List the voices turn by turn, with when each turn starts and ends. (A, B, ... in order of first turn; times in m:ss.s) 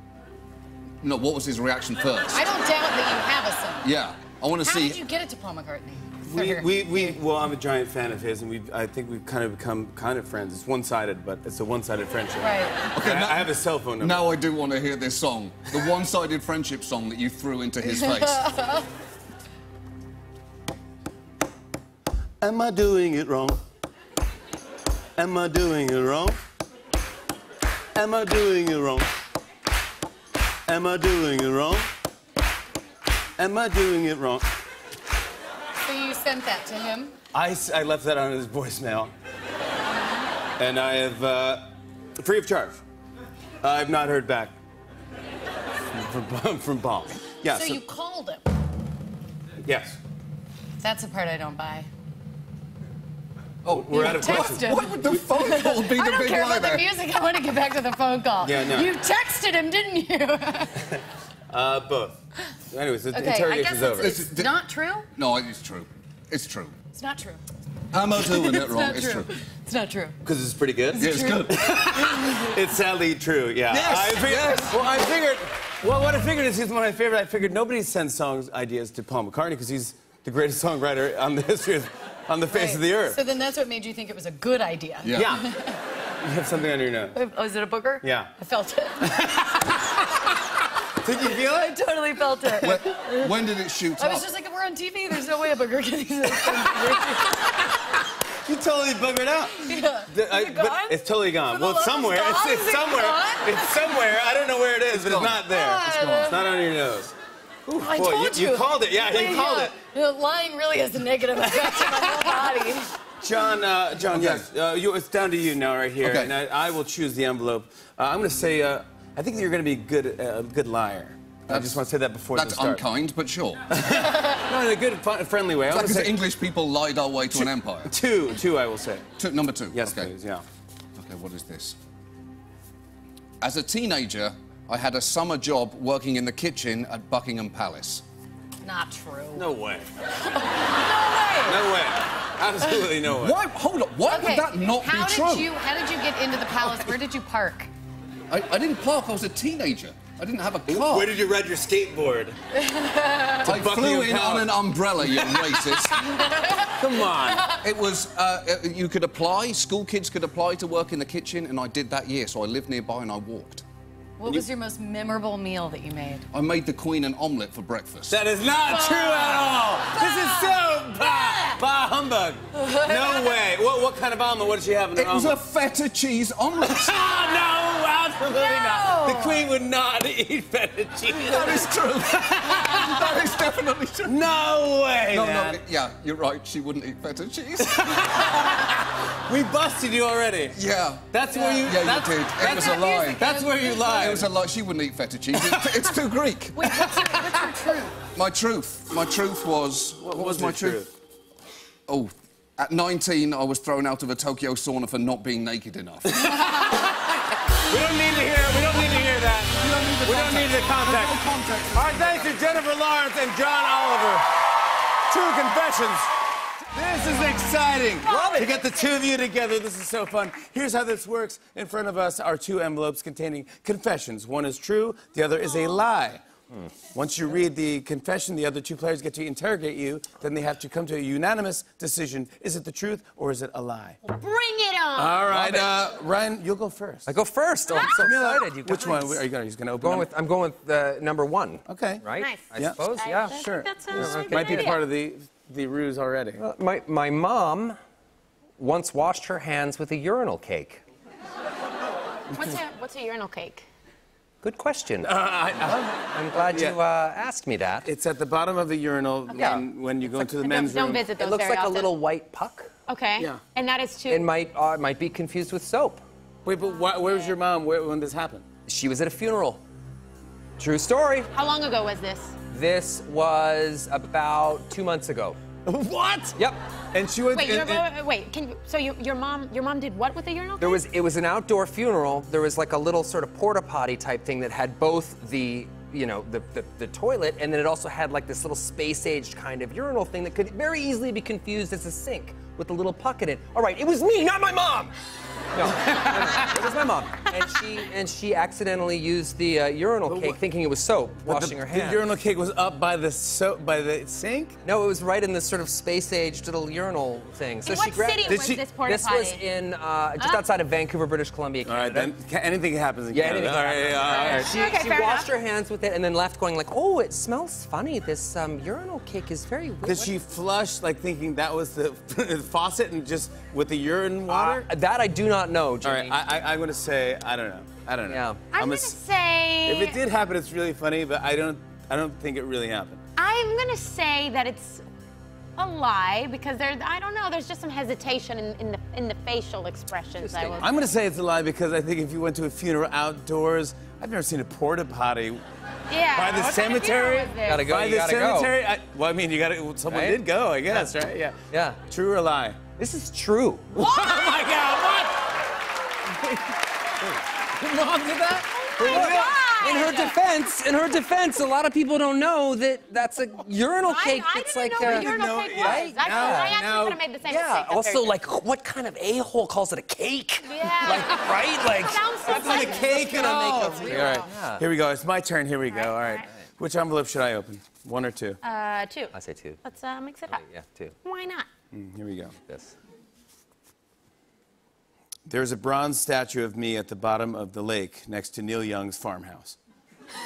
0:01.0-0:02.5 A
0:02.3-0:03.9 B
0:03.8-0:05.0 A
0:04.6-0:07.2 B
0:06.3-0:14.3 C
0:12.4-0:12.8 B
0:12.9-0:18.5 A
0:22.4-0:23.6 C
0:25.2-0:26.4 C
0:27.9-0:29.1 C
0:30.7-0:31.9 C
0:33.4-0:34.5 C
0:35.8-0:37.1 B
0:37.3-0:39.1 C
0:40.6-0:42.8 C
0:43.6-0:44.6 C
0:45.9-0:47.8 C
0:47.5-0:48.5 B
0:49.6-0:50.0 C
0:50.8-0:51.9 B
0:53.6-0:54.6 C
0:53.6-0:56.9 A
0:53.9-1:00.9 B
0:58.4-0:58.9 C
1:01.5-1:02.2 C
1:02.7-1:04.2 C
1:03.1-1:05.1 B
1:03.8-1:04.6 A
1:05.1-1:06.7 A
1:06.9-1:07.4 B
1:07.9-1:09.3 A
1:08.1-1:10.2 B
1:10.2-1:23.2 C
1:10.9-1:12.5 B
1:11.0-1:12.0 A
1:13.7-1:14.7 A
1:22.5-1:25.8 B
1:25.0-1:25.4 A
1:25.1-1:25.5 C
1:26.2-1:27.2 C
1:27.1-1:29.6 B
1:28.0-1:28.3 C
1:31.0-1:31.8 C
1:31.3-1:33.3 B
1:32.6-1:34.3 A
1:34.0-1:37.6 B
1:36.4-1:37.2 C
1:38.4-1:47.1 C
1:39.6-1:44.1 B
1:44.9-1:46.4 A
1:45.4-1:46.4 B
1:47.7-1:49.7 C
1:47.7-1:52.9 B
1:51.6-1:52.3 C
1:53.2-2:02.8 C
1:54.1-1:54.5 A
1:56.0-1:56.4 A
2:01.5-2:01.8 A
2:02.3-2:03.7 A
2:03.7-2:06.2 C
2:05.7-2:07.9 A
2:07.3-2:09.1 C
2:09.2-2:10.1 A
2:09.7-2:10.4 C
2:11.0-2:11.8 A
2:13.4-2:18.0 A
2:18.6-2:19.5 B
2:19.3-2:19.9 C
2:20.1-2:21.7 B
2:21.4-2:23.4 C
2:23.0-2:25.5 A
2:24.1-2:27.7 B
2:28.3-2:31.1 A
2:30.7-2:32.4 C
2:32.7-2:33.3 B
2:33.4-2:36.0 C
2:33.4-2:36.0 A
2:36.2-2:37.4 B
2:36.6-2:37.4 C
2:37.6-2:43.6 A
2:44.2-2:46.3 B
2:46.3-2:48.2 A
2:48.1-2:55.4 C
2:48.6-2:51.6 B
2:52.6-2:53.4 B
2:54.9-2:57.2 A
2:56.6-3:01.7 C
2:58.2-2:59.5 B
3:01.1-3:04.3 A
3:02.7-3:03.0 B
3:04.0-3:05.6 C
3:05.1-3:08.4 A
3:07.6-3:10.6 C
3:10.5-3:17.5 A
3:11.1-3:14.3 C
3:11.3-3:11.6 B
3:12.4-3:14.2 B
3:15.3-3:16.0 C
3:16.6-3:17.9 B
3:16.7-3:17.1 C
3:18.0-3:20.9 A
3:20.0-3:20.9 C
3:21.9-3:26.3 A
3:26.1-3:27.1 C
3:27.6-3:34.2 C
3:29.6-3:32.7 A
3:35.1-3:36.1 C
3:36.6-3:46.2 C
3:38.0-3:38.7 D
3:46.9-3:54.0 C
3:54.0-3:55.3 E
3:55.0-3:57.1 C
3:55.3-3:55.7 D
3:57.0-3:59.2 D
3:57.8-4:00.1 C
3:59.8-4:04.8 D
4:01.7-4:06.4 C
4:02.2-4:04.8 E
4:06.4-4:07.8 D
4:08.6-4:10.8 D
4:12.3-4:13.6 E
4:14.4-4:15.1 D
4:15.0-4:16.8 C
4:16.1-4:17.9 D
4:17.8-4:21.1 C
4:19.3-4:20.3 D
4:20.4-4:21.9 E
4:21.2-4:22.7 D
4:22.9-4:24.2 E
4:23.2-4:23.4 C
4:24.1-4:26.0 D
4:26.4-4:28.4 C
4:27.0-4:27.3 E
4:28.6-4:29.6 D
4:30.6-4:31.3 D
4:31.3-4:32.4 E
4:32.5-4:35.4 D
4:35.6-4:36.4 C
4:36.9-4:37.9 C
4:37.3-4:40.8 E
4:40.6-4:54.9 D
4:55.5-5:02.0 D
4:56.0-4:56.4 C
5:00.0-5:00.4 C
5:01.2-5:04.6 C
5:04.6-5:12.1 D
5:07.6-5:09.4 E
5:08.2-5:08.6 C
5:10.2-5:10.4 E
5:11.6-5:14.5 C
5:13.1-5:20.1 D
5:14.2-5:15.3 E
5:19.8-5:24.7 C
5:24.3-5:26.3 D
5:25.8-5:29.0 C
5:28.1-5:28.4 D
5:28.5-5:30.0 E
5:29.6-5:33.0 C
5:33.2-5:34.8 E
5:35.6-5:40.7 E
5:40.2-5:40.6 D
5:40.6-5:45.4 C
5:45.9-5:47.6 E
5:46.1-5:52.6 C
5:47.4-5:48.5 D
5:49.9-5:50.9 D
5:51.5-5:51.8 D
5:52.8-5:54.0 D
5:53.8-5:55.2 C
5:54.0-5:54.6 E
5:56.1-5:59.9 C
5:58.5-6:00.1 E
5:58.8-6:06.5 D
6:03.8-6:08.2 E
6:04.8-6:07.0 C
6:07.2-6:14.6 D
6:10.4-6:13.1 E
6:12.2-6:18.4 C
6:15.7-6:16.3 E
6:18.4-6:20.4 E
6:19.1-6:19.6 D
6:20.3-6:20.9 D
6:21.0-6:21.5 E
6:21.7-6:22.3 C
6:22.5-6:22.7 D
6:25.3-6:29.6 C